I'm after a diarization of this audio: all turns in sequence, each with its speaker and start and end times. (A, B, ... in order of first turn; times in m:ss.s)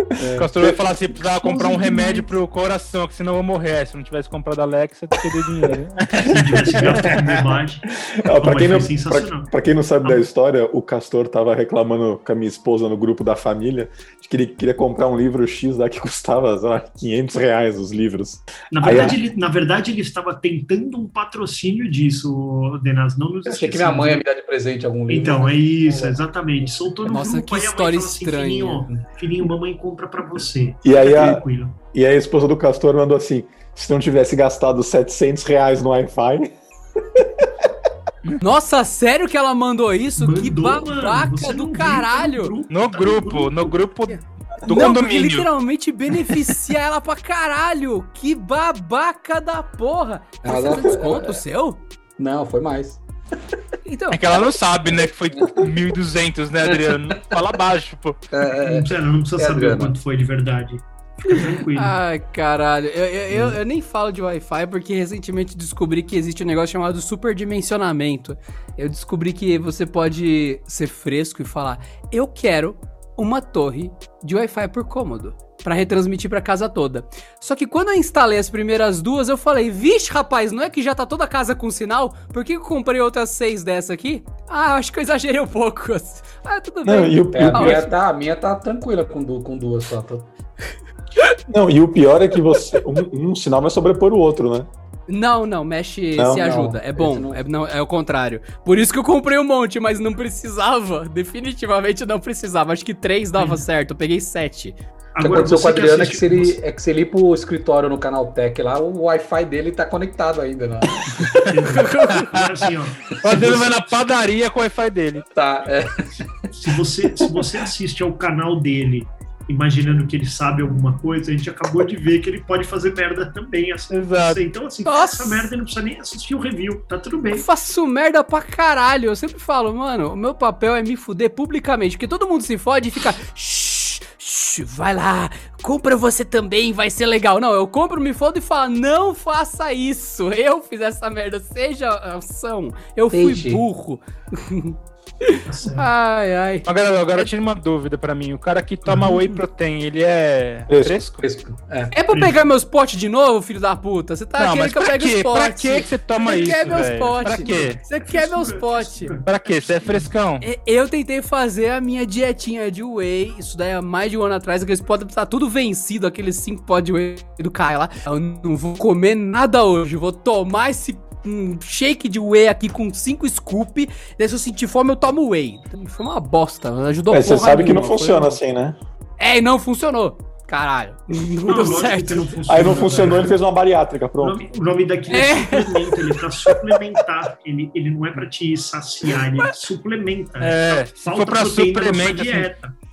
0:00.2-0:00.5 A
0:00.2-0:00.8 B
0:00.4-0:07.2 C
0:01.5-0:02.3 D
0:06.2-0:09.5 D
0:06.8-0:19.2 B
0:18.7-0:24.2 D
0:23.5-0:26.2 A
0:25.1-0:31.8 D
0:27.0-0:28.9 E
0:30.8-0:36.6 B
0:37.2-0:37.5 B
0:38.4-0:42.5 E
0:40.2-0:43.8 D
0:42.7-0:45.5 C
0:44.7-0:51.8 E
0:50.4-0:51.4 A
0:52.2-0:53.0 A
0:53.8-0:54.2 E
0:54.1-0:58.3 C
0:56.6-0:57.4 A
0:58.3-1:00.0 A
0:58.6-1:02.0 D
1:01.3-1:27.9 E
1:26.8-1:27.9 B
1:27.3-1:30.3 A
1:31.5-1:34.7 B
1:35.1-1:44.8 E
1:36.2-1:36.5 B
1:36.3-1:37.4 A
1:45.2-1:46.6 D
1:45.2-1:51.5 A
1:51.4-1:53.9 D
1:51.7-1:52.4 E
1:52.2-1:52.6 C
1:53.1-1:55.3 C
1:55.3-1:56.5 A
1:56.5-2:07.5 D
2:03.9-2:04.4 C
2:04.9-2:05.5 E
2:07.3-2:27.3 E
2:23.1-2:23.6 A
2:25.5-2:25.9 D
2:26.6-2:31.2 C
2:28.8-2:29.2 D
2:30.7-2:31.0 B
2:31.2-2:31.9 A
2:31.9-2:39.2 E
2:32.1-2:32.4 D
2:34.4-2:37.8 C
2:37.2-2:39.3 D
2:39.2-2:40.4 C
2:40.4-2:58.4 E
2:57.1-2:58.8 B
2:59.2-3:02.3 E
3:01.4-3:03.4 D
3:02.5-3:04.4 B
3:04.2-3:12.7 D
3:05.1-3:06.0 E
3:10.4-3:12.5 C